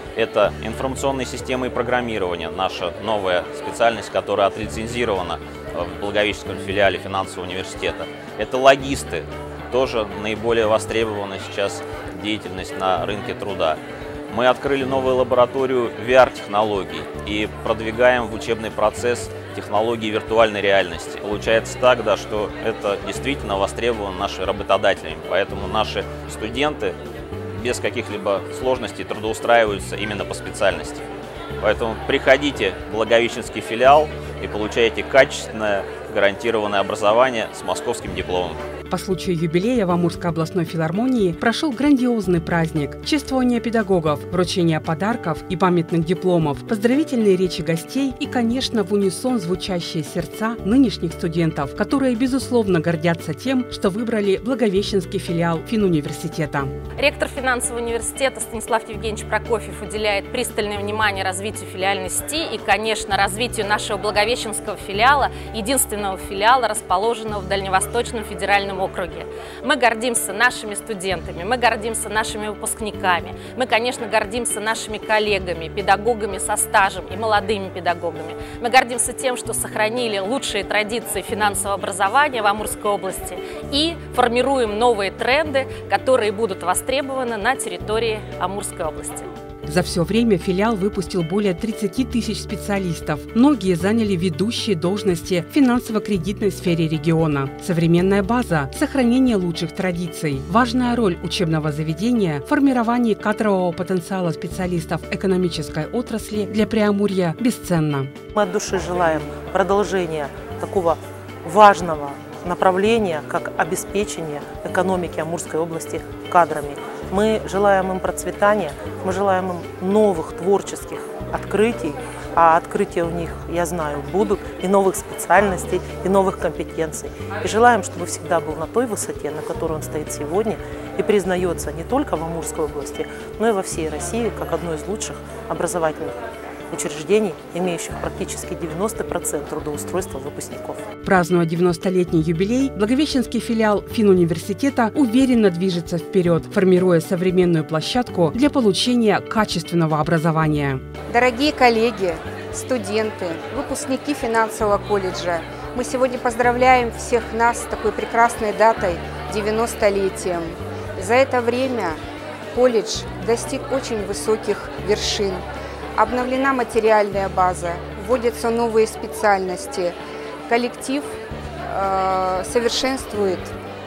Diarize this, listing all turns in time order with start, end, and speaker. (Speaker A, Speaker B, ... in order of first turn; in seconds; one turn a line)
Speaker A: 0.2-13.8
Speaker A: 14.3-27.0
Speaker A: 27.5-31.0
Speaker A: 31.6-38.6
Speaker B: 38.9-56.8
Speaker C: 57.0-89.3
Speaker B: 89.7-108.1
Speaker D: 108.3-136.2
Speaker D: 136.7-140.8
Speaker B: 141.0-150.8
Speaker E: 151.1-162.0
Speaker E: 162.5-165.4
Speaker E: 165.9-170.0
Speaker E: 170.5-173.5